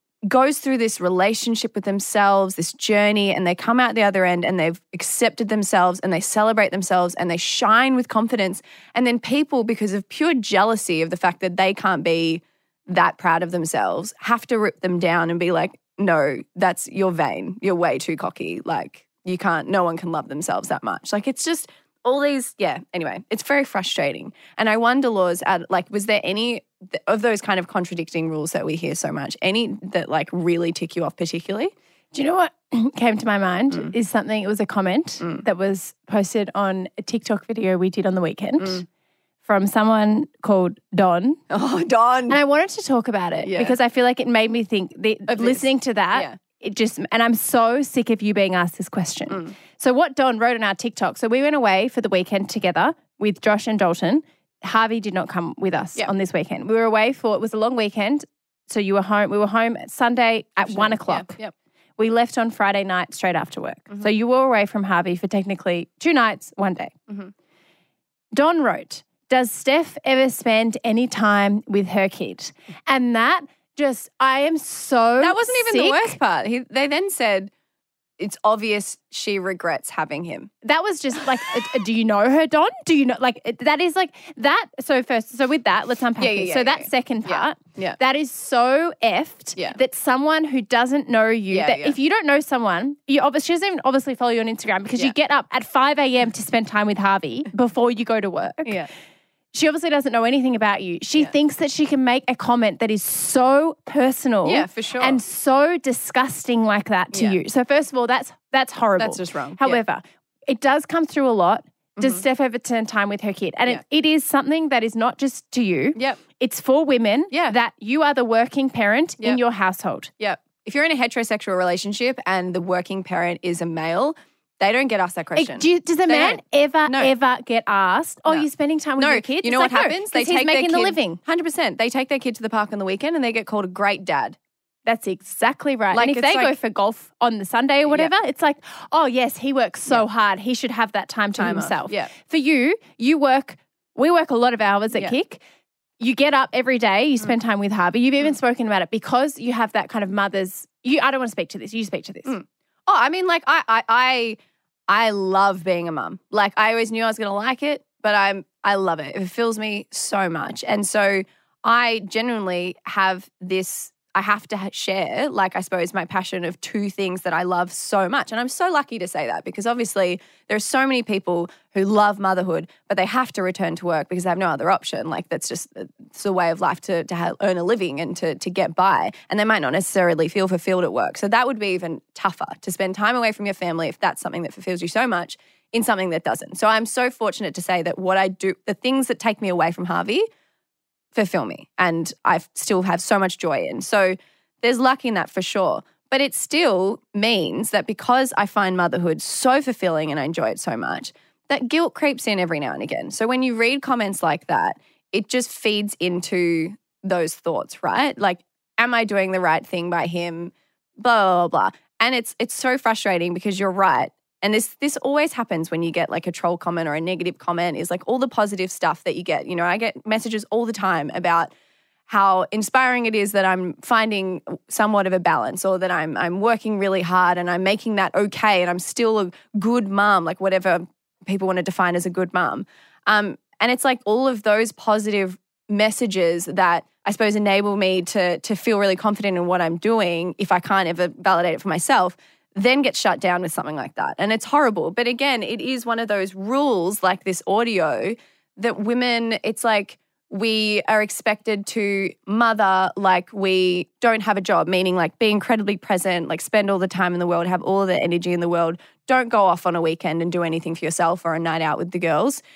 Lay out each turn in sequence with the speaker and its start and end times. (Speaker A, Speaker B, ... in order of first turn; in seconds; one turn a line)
Speaker A: 0.3-31.7
Speaker B: 32.1-38.8
Speaker B: 39.4-41.4
Speaker A: 41.5-42.4
Speaker B: 42.3-61.3
Speaker A: 43.4-43.8
Speaker A: 45.3-46.4
Speaker A: 49.3-49.6
Speaker A: 60.7-61.5
Speaker B: 62.0-66.9
Speaker B: 68.3-76.2
Speaker A: 75.2-77.5
Speaker A: 78.2-80.5
Speaker B: 80.6-98.7
Speaker A: 86.2-88.0
Speaker A: 91.5-92.0
Speaker A: 98.7-98.9
Speaker B: 99.5-120.1
Speaker A: 104.5-105.2
Speaker A: 107.1-107.4
Speaker A: 109.0-109.8
Speaker A: 112.0-112.2
Speaker A: 117.3-117.6
Speaker A: 120.2-127.1
Speaker B: 125.4-131.2
Speaker A: 128.3-134.4
Speaker B: 134.9-145.4
Speaker A: 135.9-136.6
Speaker A: 137.9-138.1
Speaker A: 141.4-142.1
Speaker B: 146.0-152.3
Speaker A: 152.3-154.4
Speaker A: 154.9-190.3
Speaker A: 191.1-221.5
Speaker A: 222.1-262.4